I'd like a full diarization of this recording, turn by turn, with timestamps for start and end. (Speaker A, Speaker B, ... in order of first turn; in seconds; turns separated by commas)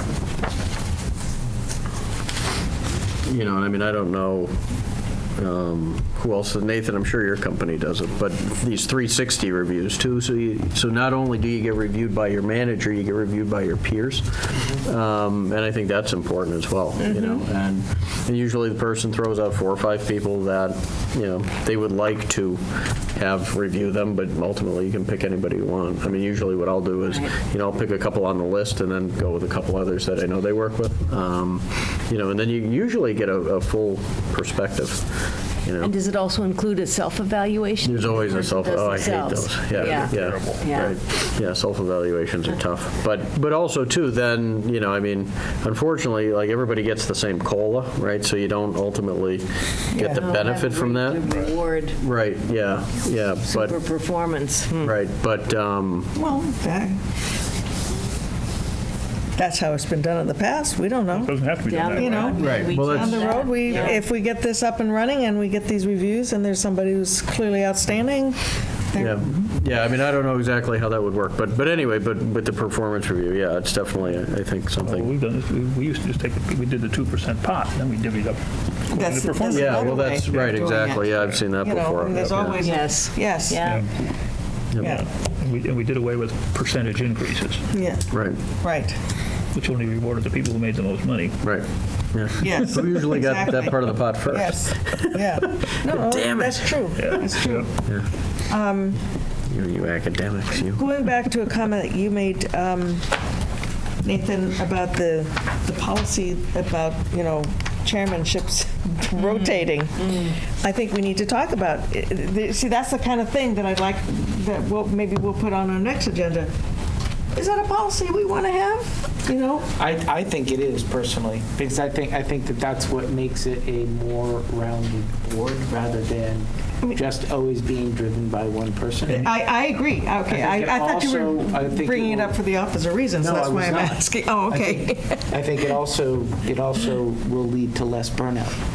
Speaker A: 3.2-4.5, Speaker A: 5.3-35.9, Speaker B: 17.0-17.4, Speaker B: 27.0-27.3, Speaker B: 35.8-41.0, Speaker A: 37.8-51.2, Speaker C: 39.7-40.6, Speaker D: 49.9-50.2, Speaker B: 50.0-52.0, Speaker A: 52.0-53.8, Speaker B: 53.2-55.0, Speaker A: 54.8-56.2, Speaker D: 56.1-57.0, Speaker D: 59.4-61.4, Speaker C: 61.1-62.4, Speaker B: 61.7-64.0, Speaker D: 61.9-68.4, Speaker A: 62.4-63.3, Speaker D: 68.9-69.3, Speaker A: 69.0-75.1, Speaker C: 74.8-80.6, Speaker D: 78.9-83.6, Speaker A: 79.5-82.6, Speaker C: 81.2-81.4, Speaker B: 82.6-83.9, Speaker C: 83.6-83.9, Speaker D: 84.8-85.0, Speaker C: 84.8-87.7, Speaker D: 87.7-88.9, Speaker A: 88.1-88.4, Speaker C: 89.5-91.4, Speaker A: 91.4-96.8, Speaker D: 92.4-97.7, Speaker C: 97.0-97.7, Speaker D: 98.5-99.0, Speaker A: 99.5-100.8, Speaker D: 100.7-103.1, Speaker D: 104.0-116.5, Speaker B: 109.2-110.4, Speaker D: 117.3-119.7, Speaker E: 119.8-129.3, Speaker C: 129.0-129.3, Speaker D: 129.2-135.2, Speaker E: 130.3-132.3, Speaker E: 133.2-138.6